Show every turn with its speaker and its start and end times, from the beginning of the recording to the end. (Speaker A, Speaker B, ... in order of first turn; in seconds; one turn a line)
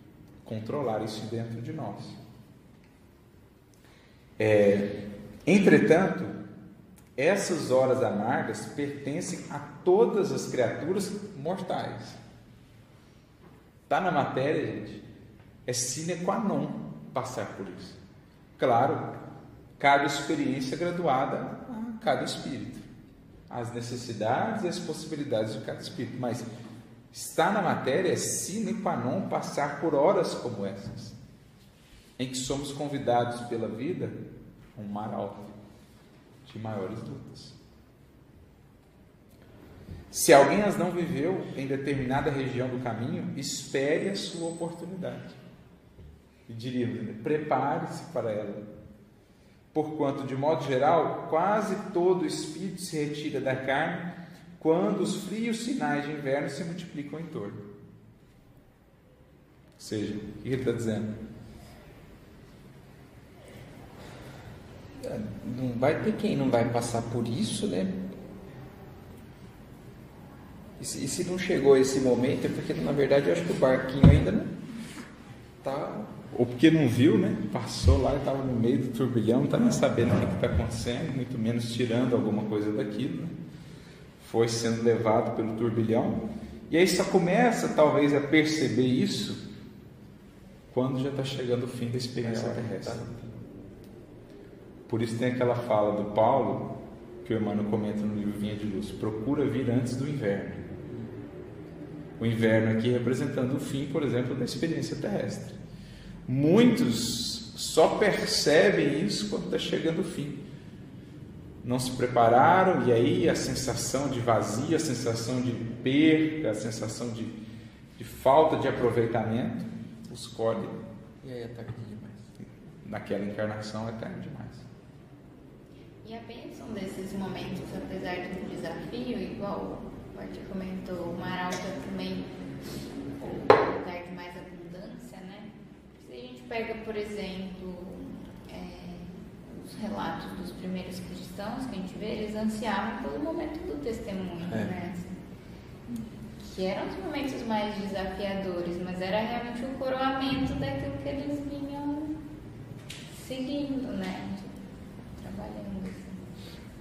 Speaker A: 0.4-2.2
Speaker A: 4.4-4.9
Speaker A: 5.5-6.3
Speaker A: 7.2-12.2
Speaker A: 13.9-15.0
Speaker A: 15.7-18.0
Speaker A: 18.6-19.2
Speaker A: 19.8-22.8
Speaker A: 23.5-26.5
Speaker A: 27.1-31.1
Speaker A: 32.2-34.2
Speaker A: 34.7-35.5
Speaker A: 36.4-37.6
Speaker A: 40.1-45.4
Speaker A: 46.5-48.6
Speaker A: 49.7-57.7
Speaker A: 59.8-61.1
Speaker B: 65.0-68.0
Speaker B: 70.8-74.5
Speaker B: 75.6-76.1
Speaker A: 76.3-83.3
Speaker A: 84.2-89.4
Speaker A: 90.7-93.1
Speaker B: 92.2-93.3
Speaker A: 94.9-100.7
Speaker A: 102.2-105.5
Speaker A: 106.3-110.4
Speaker A: 111.6-117.4
Speaker A: 118.0-120.8
Speaker B: 121.2-122.3
Speaker A: 122.8-124.7
Speaker C: 126.0-132.3
Speaker C: 133.2-145.1
Speaker B: 144.4-144.7
Speaker C: 145.9-152.1
Speaker C: 153.1-154.5
Speaker C: 155.2-156.2